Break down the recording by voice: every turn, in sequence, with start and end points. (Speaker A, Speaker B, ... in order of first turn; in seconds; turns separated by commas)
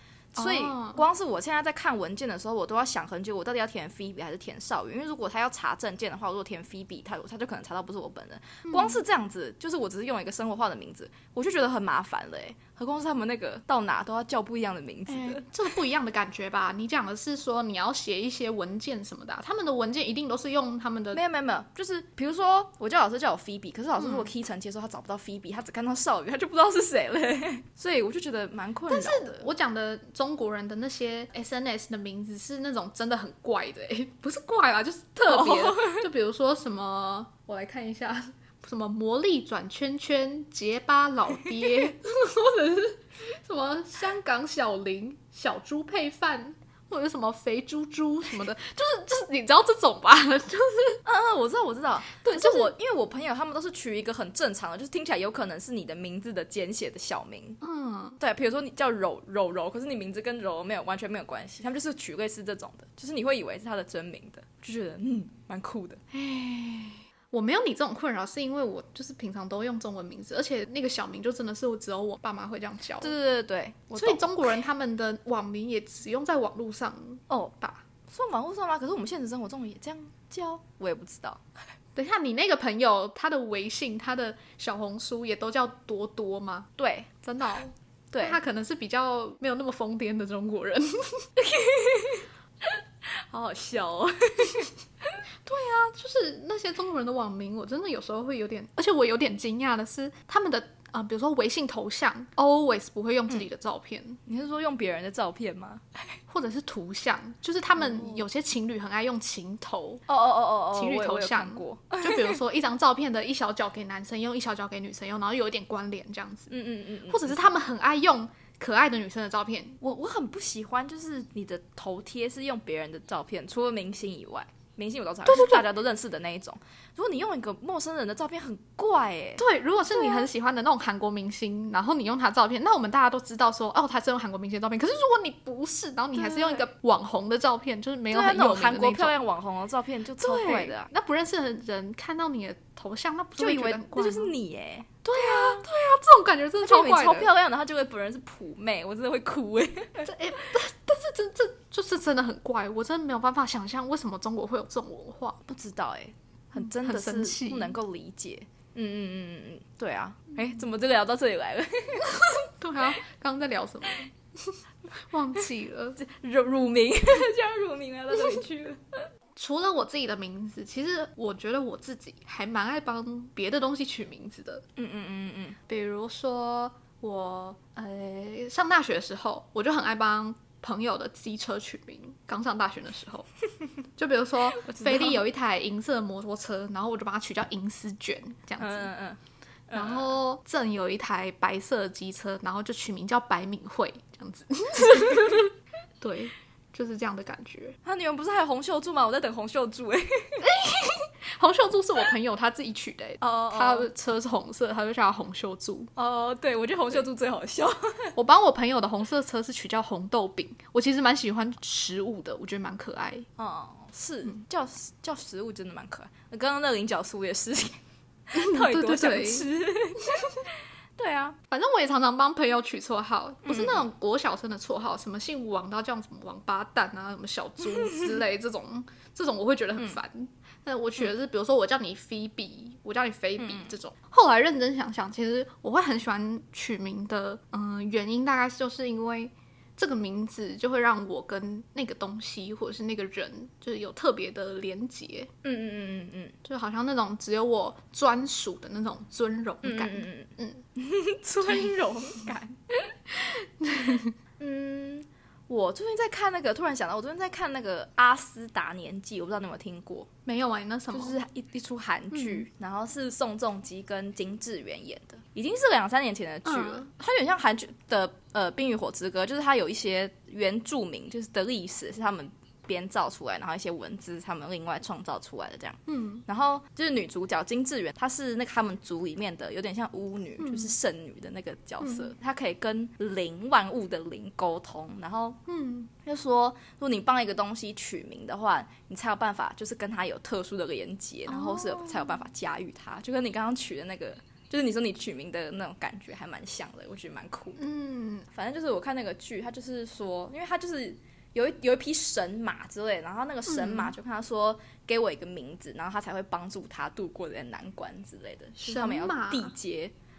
Speaker A: 0.4-1.0, Speaker B: 0.4-15.5, Speaker A: 8.7-9.0, Speaker A: 15.1-21.2, Speaker B: 21.1-29.5, Speaker A: 24.0-24.3, Speaker A: 28.9-51.0, Speaker B: 35.3-36.0, Speaker B: 51.0-57.6, Speaker A: 52.2-52.7, Speaker A: 57.6-58.2, Speaker B: 58.2-66.0, Speaker A: 66.1-73.1, Speaker B: 73.0-74.5, Speaker A: 73.9-77.8, Speaker B: 77.3-77.5, Speaker B: 78.1-81.4, Speaker A: 82.0-86.7, Speaker B: 86.8-87.1, Speaker A: 87.2-91.3, Speaker B: 88.1-88.4, Speaker B: 91.4-95.2, Speaker A: 95.4-104.2, Speaker B: 104.3-106.2, Speaker A: 106.3-110.0, Speaker B: 107.8-108.2, Speaker B: 110.1-112.4, Speaker A: 110.7-116.5, Speaker B: 116.5-117.4, Speaker A: 117.1-119.8, Speaker B: 119.8-129.4, Speaker A: 125.2-125.7, Speaker A: 129.4-139.1, Speaker B: 136.2-136.7, Speaker B: 138.1-140.9, Speaker A: 140.2-144.3, Speaker B: 143.4-145.7, Speaker A: 145.1-147.3, Speaker B: 146.6-150.1, Speaker A: 150.0-155.4, Speaker B: 155.5-162.5, Speaker A: 156.6-157.8, Speaker A: 162.1-166.0, Speaker B: 166.0-169.0, Speaker A: 169.4-174.6, Speaker B: 174.8-175.6, Speaker A: 175.7-183.3, Speaker A: 184.0-188.9, Speaker B: 184.6-185.2, Speaker B: 188.6-190.2, Speaker A: 189.7-197.8, Speaker B: 197.8-200.4, Speaker A: 200.4-205.9, Speaker B: 203.2-203.9, Speaker B: 206.0-208.1, Speaker A: 208.2-213.3, Speaker B: 213.4-217.8, Speaker B: 218.3-220.4, Speaker A: 218.3-219.5, Speaker B: 221.0-221.4, Speaker A: 221.5-245.3, Speaker B: 223.4-223.8, Speaker B: 227.8-228.2, Speaker B: 233.4-233.7, Speaker B: 245.4-246.3, Speaker A: 246.4-250.6, Speaker B: 249.6-252.9, Speaker A: 251.4-251.8, Speaker A: 253.2-254.1, Speaker B: 254.4-260.1, Speaker A: 260.3-261.2, Speaker B: 260.9-285.4, Speaker A: 262.1-262.5, Speaker A: 266.4-266.9, Speaker A: 275.9-276.2, Speaker A: 280.4-280.7, Speaker A: 281.8-282.1, Speaker A: 285.5-285.9, Speaker B: 286.0-297.6, Speaker A: 291.3-292.2, Speaker A: 297.6-298.3, Speaker B: 298.3-309.9, Speaker A: 303.5-304.0, Speaker A: 308.6-309.5